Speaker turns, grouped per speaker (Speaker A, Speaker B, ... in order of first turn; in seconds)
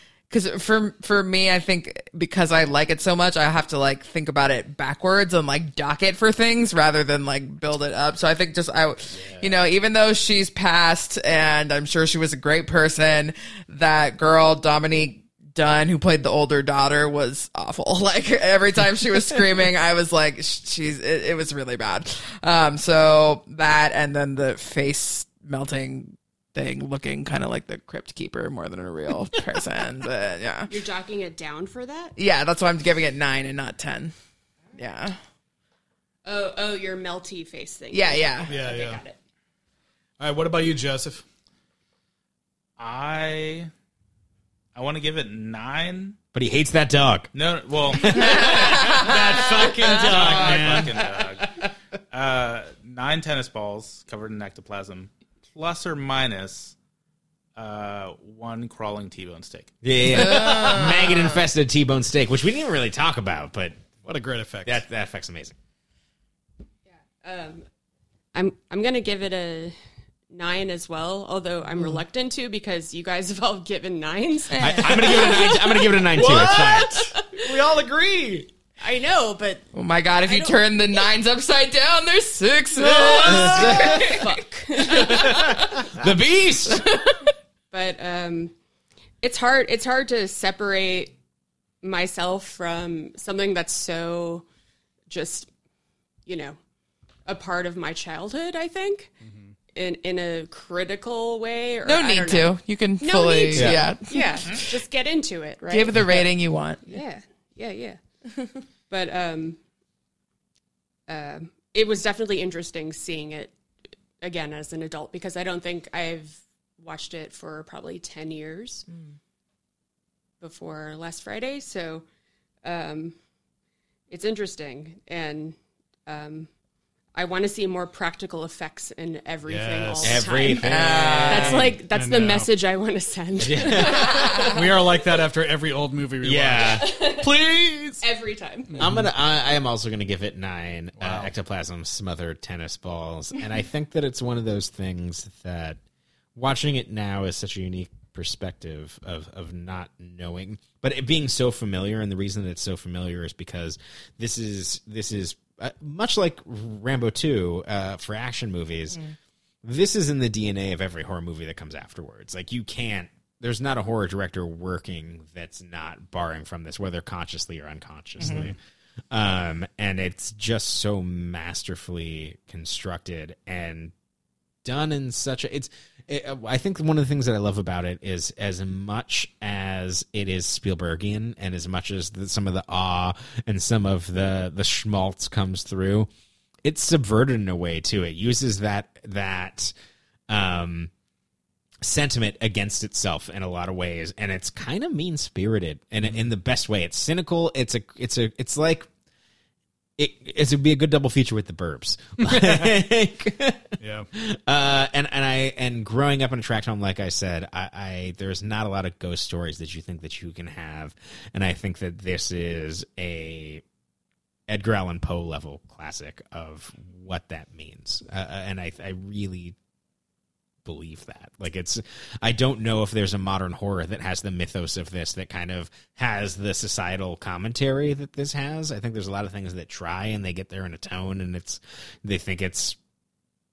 Speaker A: 0.3-30.7, 32.1-34.1, 34.7-35.2, 37.9-38.5, 48.1-49.2, 60.0-61.3, 74.5-75.1, 79.7-83.6, 85.1-85.5, 101.8-104.8, 105.7-107.0, 130.6-131.6
Speaker B: 9.1-9.6, 42.8-43.7, 44.7-46.1, 47.3-49.1, 49.8-51.5, 52.1-56.7, 57.5-59.7
Speaker C: 30.7-32.1, 36.2-39.2, 67.2-67.7, 68.3-69.7, 70.3-77.5, 78.8-79.7, 80.3-80.6, 83.1-85.6, 87.7-88.5, 89.2-91.2, 91.8-94.5, 95.1-95.5, 96.2-96.6, 97.2-99.1, 99.7-106.3, 106.8-109.6, 111.1-113.5, 114.2-118.9, 120.4-122.0, 122.6-123.2, 124.1-126.5, 127.1-134.6, 136.6-137.3, 138.0-138.8
Speaker D: 38.5-39.0, 40.2-41.2, 48.0-51.0, 64.0-64.8, 76.1-78.5, 82.8-84.2, 84.9-85.5, 99.2-99.5, 129.4-130.2, 131.9-132.5, 133.6-138.0, 138.7-139.1, 141.0-141.3, 196.0-196.3, 202.2-202.7, 203.8-204.1
Speaker E: 46.3-47.3, 59.8-63.8, 64.6-65.5, 74.6-77.1, 83.2-84.2, 85.2-86.9, 103.5-103.9, 130.0-131.8, 133.4-134.6, 136.2-136.9, 138.8-145.8, 146.3-159.0, 159.6-168.6, 169.1-173.9, 174.6-186.1, 186.6-189.7, 190.3-190.9, 191.8-198.9, 200.0-213.6, 214.5-219.6, 220.6-232.8